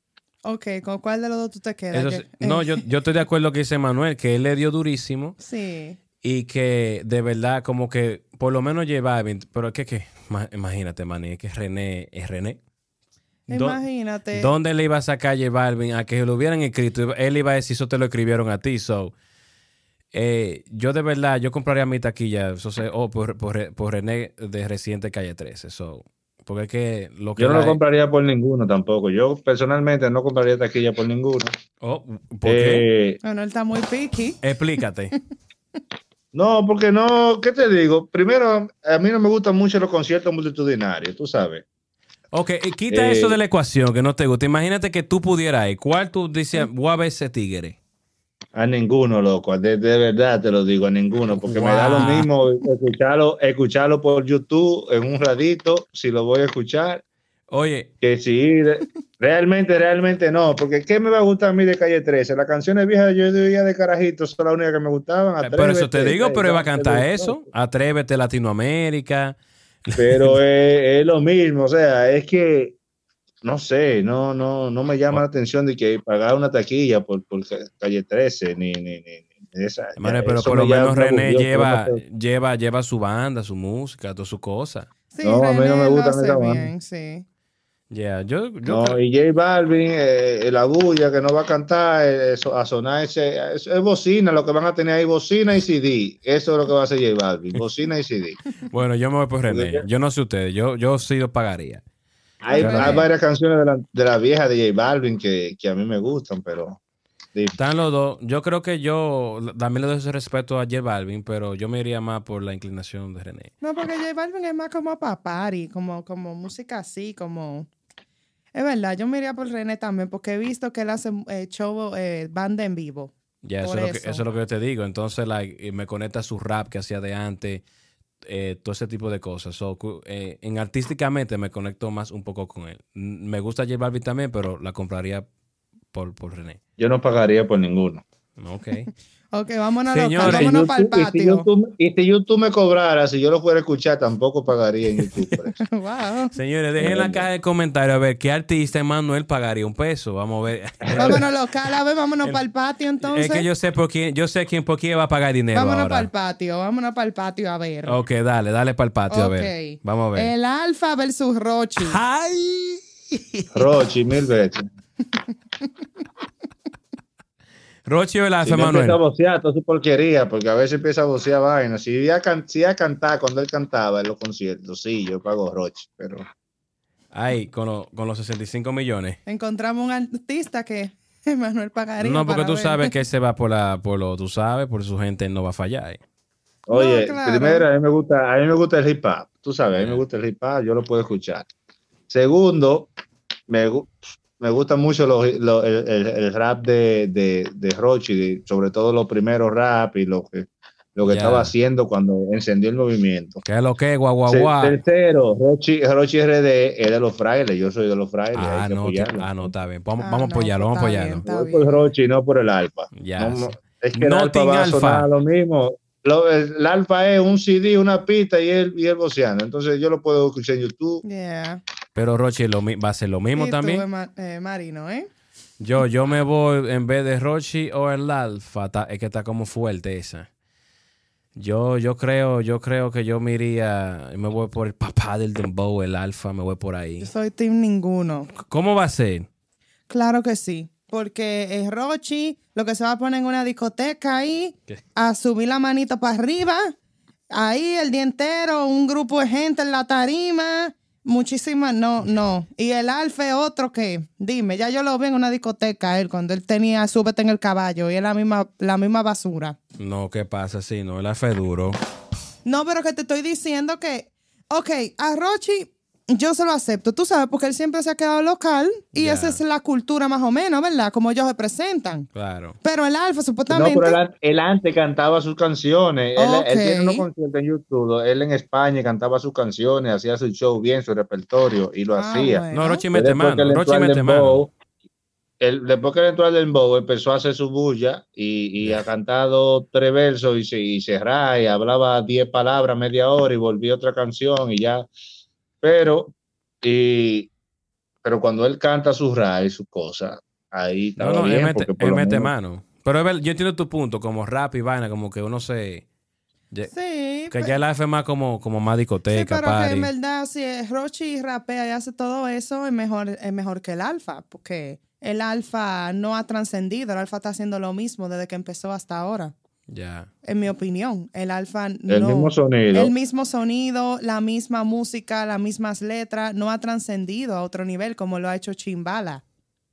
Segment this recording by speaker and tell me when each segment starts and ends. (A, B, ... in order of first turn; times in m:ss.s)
0:00.4-0:02.8 A
0:01.9-0:05.4 B
0:05.4-0:06.0 A
0:06.2-0:12.6 B
0:13.5-0:13.8 B
0:13.5-0:14.5 A
0:14.3-0:19.1 B
0:20.1-0:27.8 B
0:27.4-0:31.5 C
0:31.8-0:32.8 B
0:32.4-0:33.2 C
0:33.2-0:34.4 A
0:34.4-0:35.1 B
0:36.3-0:41.6 C
0:42.3-0:47.8 B
0:42.9-0:43.4 C
0:48.5-0:57.0 C
0:51.4-0:52.3 B
0:57.5-0:57.9 B
0:58.0-1:07.4 C
1:05.4-1:10.4 B
1:10.0-1:12.8 C
1:13.4-1:22.0 C
1:20.0-1:24.9 B
1:25.1-1:27.2 A
1:25.2-1:26.7 C
1:27.9-1:29.0 B
1:28.6-1:38.4 C
1:38.7-1:41.8 B
1:39.5-1:39.8 C
1:42.4-1:46.8 C
1:42.5-1:43.1 A
1:42.6-1:43.0 B
1:47.6-1:53.5 B
1:53.6-1:57.7 A
1:58.5-2:04.2 A
2:03.4-2:07.6 B
2:08.2-2:15.2 B
2:15.9-2:16.6 B
2:16.8-2:18.0 C
2:18.4-2:18.9 B
2:19.3-2:21.5 A
2:19.9-2:20.5 B
2:20.2-2:25.6 C
2:25.6-2:26.3 A
2:26.3-2:31.3 B
2:26.8-2:27.3 C
2:30.8-2:31.2 C
2:30.9-2:33.4 A
2:33.0-2:36.1 B
2:35.5-2:38.0 A
2:37.8-2:40.3 B
2:39.1-2:42.0 A
2:41.8-2:43.7 B
2:43.5-2:44.7 C
2:47.8-2:49.0 B
2:48.4-2:56.2 C
2:57.1-2:59.2 B
2:59.2-3:02.9 A
3:02.0-3:06.0 B
3:06.7-3:11.5 C
3:06.7-3:07.6 A
3:09.8-3:10.0 B
3:12.1-3:12.9 C
3:13.5-3:23.4 C
3:21.0-3:21.5 B
3:23.4-3:24.8 B
3:24.3-3:29.5 C
3:28.3-3:31.2 B
3:30.0-3:31.7 A
3:31.2-3:41.0 C
3:32.9-3:35.1 B
3:41.0-3:41.6 A
3:41.9-3:43.8 B
3:43.4-3:45.1 A
3:45.6-3:50.3 B
3:51.4-3:57.1 B
3:57.0-3:58.3 A
3:58.4-3:59.3 B
3:59.9-4:06.7 A
4:07.3-4:19.6 A
4:19.8-4:21.8 B
4:22.4-4:32.1 A
4:28.9-4:29.4 B
4:32.1-4:32.6 B
4:32.6-4:34.0 A
4:33.5-4:44.5 C
4:36.2-4:37.1 A
4:42.0-4:42.8 A
4:42.5-4:44.4 B
4:45.4-4:54.9 C
4:55.6-4:57.3 C
4:58.0-5:02.3 C
5:01.0-5:05.8 B
5:06.7-5:07.5 A
5:07.3-5:09.9 B
5:09.1-5:19.3 A
5:19.7-5:20.1 B
5:20.2-5:29.2 A
5:21.9-5:22.9 C